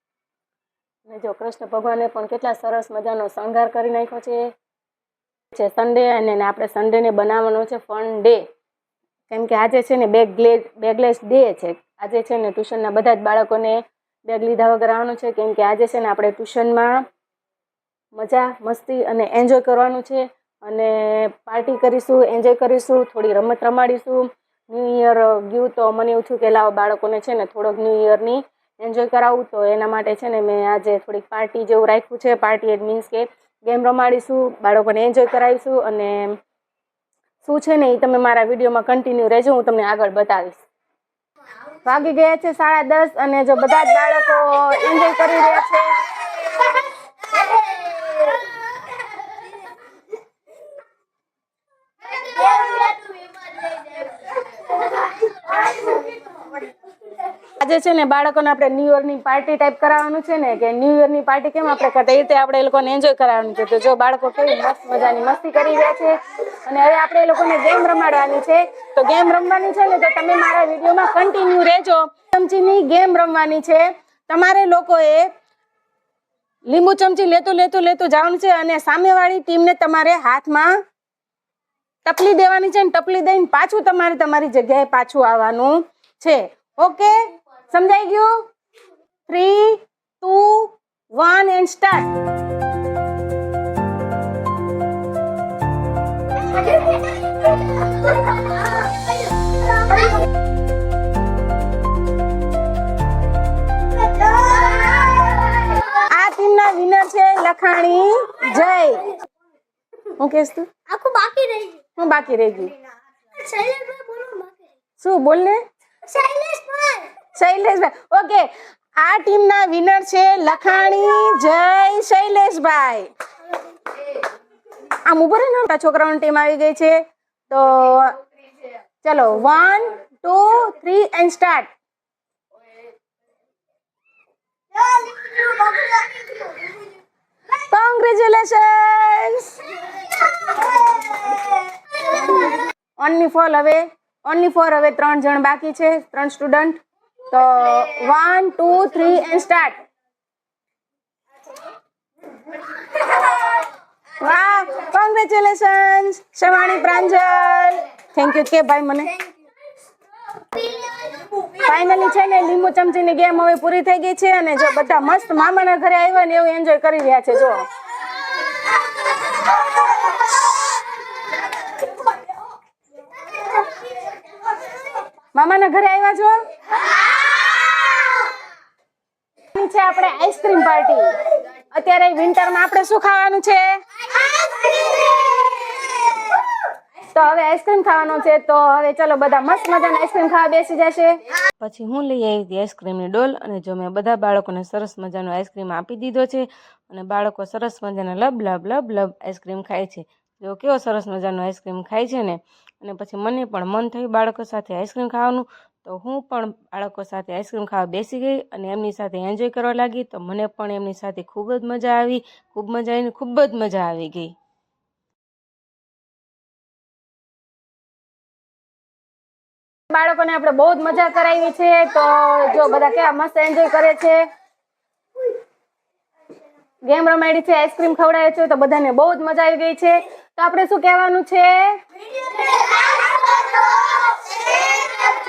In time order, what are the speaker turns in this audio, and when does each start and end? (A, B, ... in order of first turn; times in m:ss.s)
0:01.0-0:04.4 A
0:05.5-0:08.4 A
0:09.3-0:17.0 A
0:18.2-0:36.4 A
0:37.4-0:40.6 A
0:41.8-0:46.0 A
0:52.2-0:54.2 B
0:55.4-0:56.2 B
0:57.4-1:15.3 A
1:16.7-1:20.8 A
1:22.0-1:28.4 A
1:29.3-1:32.1 A
1:44.0-1:45.5 B
1:45.8-1:49.2 A
1:50.2-1:50.8 A
1:50.9-1:51.9 B
1:52.0-1:52.7 A
1:53.3-1:54.5 B
1:55.0-1:55.6 A
1:56.0-1:57.1 B
1:57.3-2:03.1 A
2:04.9-2:07.0 A
2:07.5-2:08.2 A
2:09.0-2:11.7 A
2:14.9-2:16.6 B
2:17.6-2:19.8 A
2:23.0-2:29.8 A
2:32.8-2:33.6 A
2:34.2-2:39.2 A
2:40.6-2:47.7 A
2:55.3-2:56.4 A
2:59.5-3:05.9 A
3:07.1-3:34.3 A
3:39.9-3:44.2 A
3:46.8-3:51.8 A